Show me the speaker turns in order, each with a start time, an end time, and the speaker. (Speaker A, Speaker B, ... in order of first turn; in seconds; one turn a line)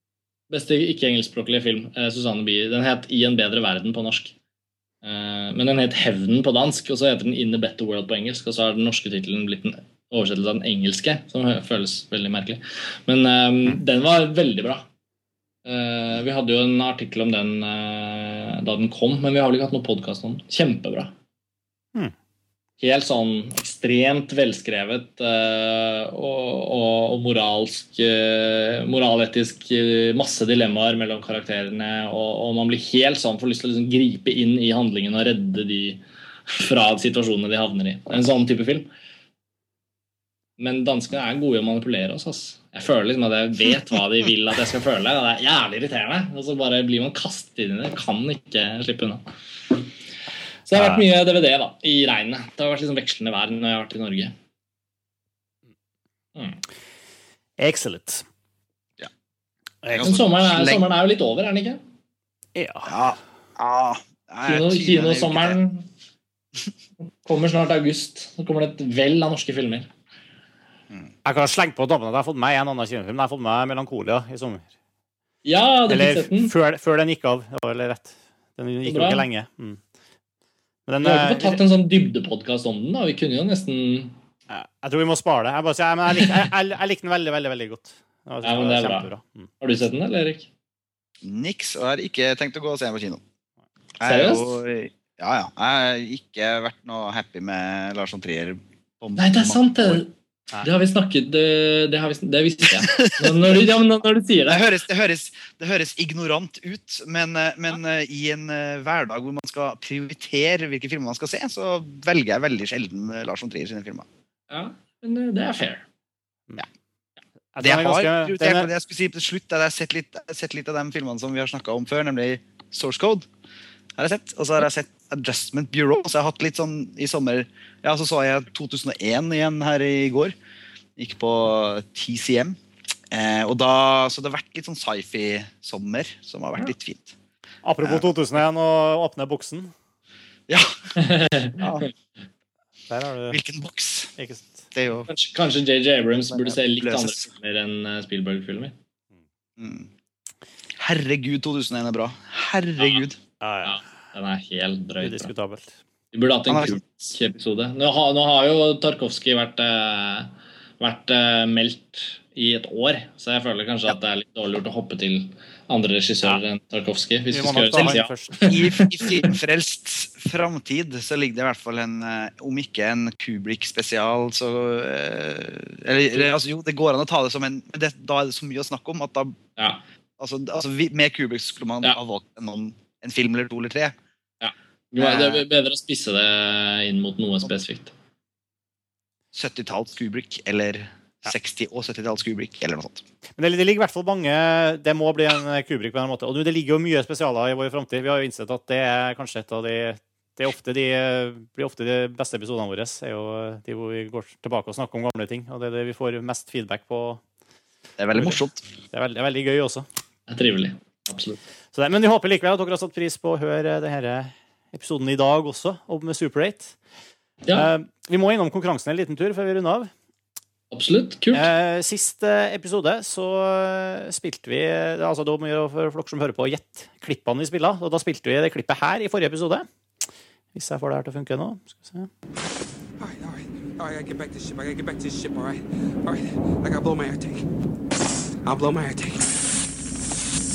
Speaker A: 0.5-4.3
Speaker A: 5.0-14.9
Speaker A: 15.7-21.1
Speaker A: 22.8-38.9
Speaker A: 40.6-49.2
Speaker A: 50.7-54.3
Speaker B: 50.7-51.0
Speaker A: 56.4-56.6
Speaker B: 57.6-58.3
Speaker C: 59.9-60.8
Speaker A: 60.0-61.8
Speaker B: 62.5-62.9
Speaker C: 62.9-65.6
Speaker A: 64.5-65.9
Speaker A: 67.2-69.9
Speaker B: 71.2-74.7
Speaker A: 75.5-76.5
Speaker B: 75.9-79.8
Speaker A: 78.9-79.2
Speaker B: 80.9-81.6
Speaker A: 81.0-84.2
Speaker B: 84.5-89.5
Speaker A: 88.4-89.1
Speaker A: 89.6-90.5
Speaker C: 91.2-93.2
Speaker C: 94.0-100.0
Speaker A: 94.0-94.6
Speaker A: 99.2-104.7
Speaker C: 102.8-103.5
Speaker C: 104.5-114.1
Speaker A: 114.5-115.8
Speaker B: 117.5-118.7
Speaker C: 117.6-123.3
Speaker C: 124.0-130.3
Speaker C: 131.0-132.6
Speaker C: 133.1-137.2
Speaker B: 137.6-139.7
Speaker C: 140.5-140.8
Speaker A: 141.0-141.7
Speaker C: 141.6-141.9
Speaker B: 142.9-143.4
Speaker C: 143.3-144.1
Speaker B: 144.2-144.7
Speaker C: 144.7-145.1
Speaker A: 145.1-148.8
Speaker C: 146.3-147.3
Speaker C: 149.6-149.9
Speaker C: 150.8-153.2
Speaker B: 153.4-153.8
Speaker A: 153.6-155.3
Speaker B: 155.0-155.8
Speaker A: 156.1-169.3
Speaker C: 156.5-156.8
Speaker B: 167.3-168.5
Speaker C: 168.5-179.4
Speaker C: 180.2-183.9
Speaker A: 184.4-187.9
Speaker C: 185.0-185.4
Speaker C: 189.3-193.1
Speaker B: 193.4-207.2
Speaker C: 208.0-208.6
Speaker B: 208.9-209.9
Speaker A: 210.3-211.4
Speaker B: 211.7-216.8
Speaker B: 217.5-219.9
Speaker A: 220.7-221.5
Speaker B: 221.3-229.7
Speaker B: 230.5-232.1
Speaker D: 233.0-237.5
Speaker D: 238.4-239.5